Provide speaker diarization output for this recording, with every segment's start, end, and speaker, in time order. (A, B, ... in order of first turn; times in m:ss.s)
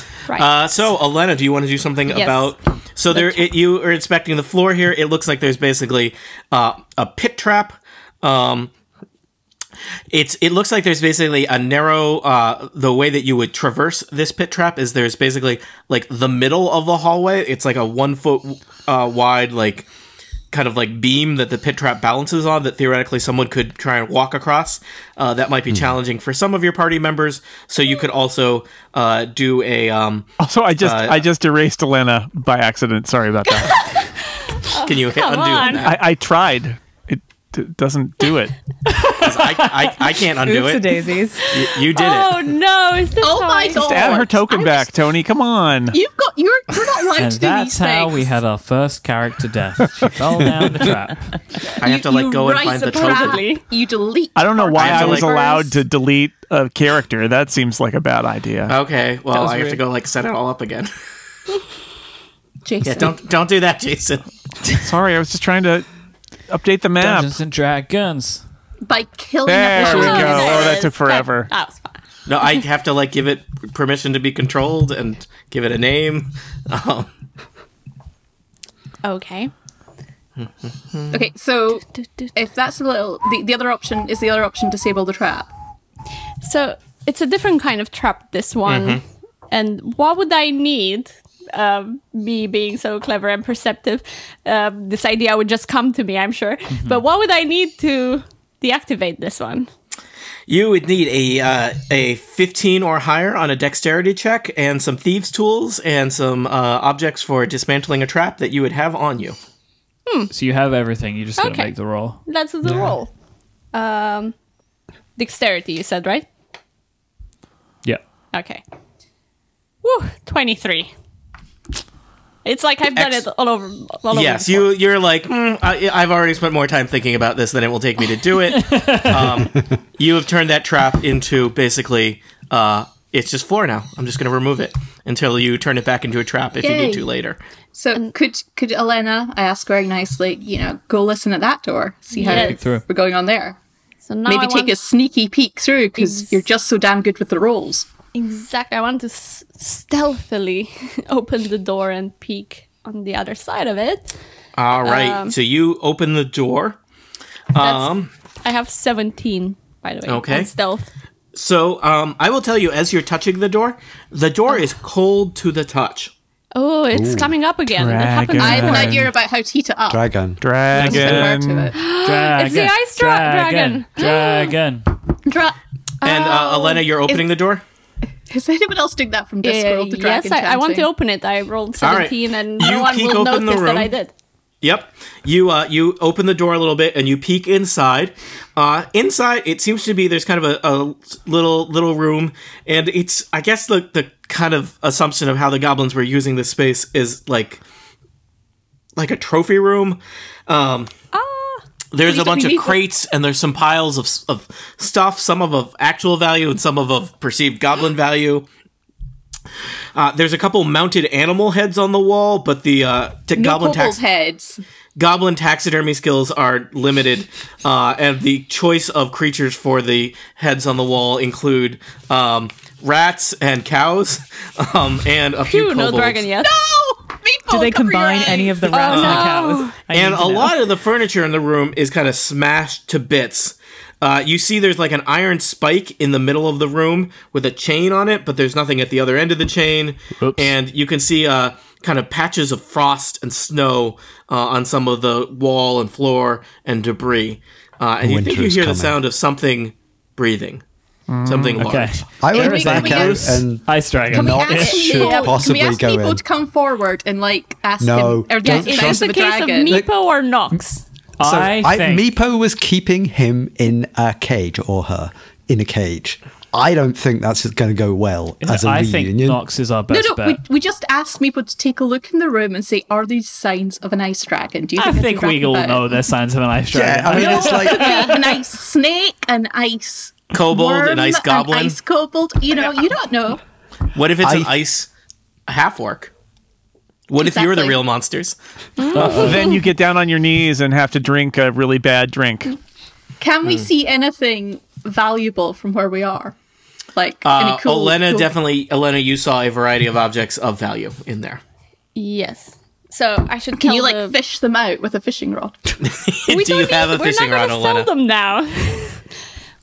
0:00.3-0:08.7 A
0:02.1-0:02.5 B
0:03.1-0:03.5 B
0:10.1-0:19.9 A
0:20.5-0:31.2 A
0:30.4-0:33.8 C
0:33.7-0:35.8 B
0:34.8-0:36.0 A
0:35.8-0:38.5 C
0:39.2-0:40.9 A
0:40.4-0:41.4 D
0:41.5-0:42.4 A
0:41.6-0:44.2 B
0:43.2-0:44.9 E
0:43.7-0:46.0 C
0:45.9-0:48.3 E
0:47.2-0:51.4 F
0:51.8-0:53.4 A
0:51.8-0:55.8 E
0:52.9-0:53.6 B
0:54.4-0:58.7 C
0:54.8-0:55.3 A
0:58.7-1:00.9 A
0:59.3-0:59.8 C
1:02.6-1:03.2 E
1:02.8-1:04.2 A
1:04.8-1:05.8 C
1:06.5-1:07.3 C
1:07.0-1:08.4 F
1:08.8-1:10.8 E
1:09.4-1:11.5 C
1:09.8-1:12.0 B
1:12.3-1:17.1 A
1:19.0-1:19.5 B
1:20.4-1:21.2 A
1:21.1-1:25.5 E
1:22.0-1:22.3 B
1:26.4-1:39.7 B
1:28.6-1:29.0 A
1:36.7-1:37.0 F
1:40.5-1:49.4 A
1:50.0-1:50.3 B
1:50.3-1:52.2 F
1:51.4-1:51.7 B
1:52.2-1:53.1 B
1:53.7-1:54.3 B
1:55.2-1:56.2 B
1:58.3-1:58.6 B
1:59.8-2:00.9 B
2:02.4-2:04.7 B
2:02.9-2:03.2 A
2:04.1-2:17.4 A
2:08.5-2:09.4 F
2:16.6-2:17.1 E
2:17.7-2:23.6 E
2:22.2-2:22.6 B
2:22.2-2:22.8 F
2:24.0-2:24.7 B
2:24.3-2:27.9 E
2:26.0-2:26.4 B
2:28.1-2:34.1 B
2:34.6-2:36.8 A
2:34.8-2:35.3 B
2:37.5-2:38.1 A
2:37.6-2:37.9 B
2:38.4-2:40.9 B
2:40.0-2:40.5 A
2:41.3-2:46.1 A
2:46.5-2:49.0 B
2:46.9-2:47.3 G
2:47.8-2:49.1 C
2:48.4-2:50.1 E
2:49.9-2:50.4 G
2:50.4-2:51.7 C
2:50.7-2:51.8 E
2:50.8-2:51.2 F
2:51.7-2:54.6 B
2:52.0-2:54.9 F
2:55.2-2:57.3 E
2:56.0-2:57.6 A
2:58.3-3:00.9 E
2:59.4-3:04.1 B
3:01.8-3:03.9 A
3:04.6-3:17.6 A
3:19.0-3:20.9 A
3:21.1-3:21.6 B
3:21.9-3:28.5 A
3:22.1-3:22.7 E
3:29.9-3:34.0 A
3:33.3-3:34.6 E
3:35.0-3:46.2 A
3:45.4-3:46.5 B
3:46.4-3:49.3 E
3:47.5-3:50.5 D
3:48.7-3:49.8 B
3:48.9-3:49.2 A
3:49.9-4:10.6 A
4:00.2-4:00.5 F
4:08.0-4:09.0 G
4:11.1-4:11.7 C
4:11.2-4:12.0 A
4:11.6-4:15.1 F
4:12.2-4:16.2 G
4:12.3-4:13.3 E
4:14.1-4:19.8 E
4:14.7-4:15.4 B
4:17.8-4:19.1 G
4:18.4-4:20.8 B
4:19.6-4:19.9 G
4:21.2-4:22.1 F
4:21.2-4:29.4 G
4:28.4-4:30.4 F
4:29.9-4:36.0 E
4:34.8-4:38.3 F
4:36.7-4:38.0 G
4:37.1-4:43.4 E
4:40.3-4:41.8 A
4:43.9-4:44.9 A
4:44.2-4:44.5 G
4:45.5-4:46.1 A
4:47.1-4:48.4 A
4:47.2-4:47.8 E
4:48.8-4:49.6 B
4:48.9-4:52.5 C
4:49.0-4:49.5 F
4:53.2-4:56.3 E
4:56.9-4:58.3 E
4:57.2-5:01.4 A
5:02.0-5:04.2 B
5:03.6-5:05.7 E
5:05.8-5:07.9 A
5:06.3-5:09.0 B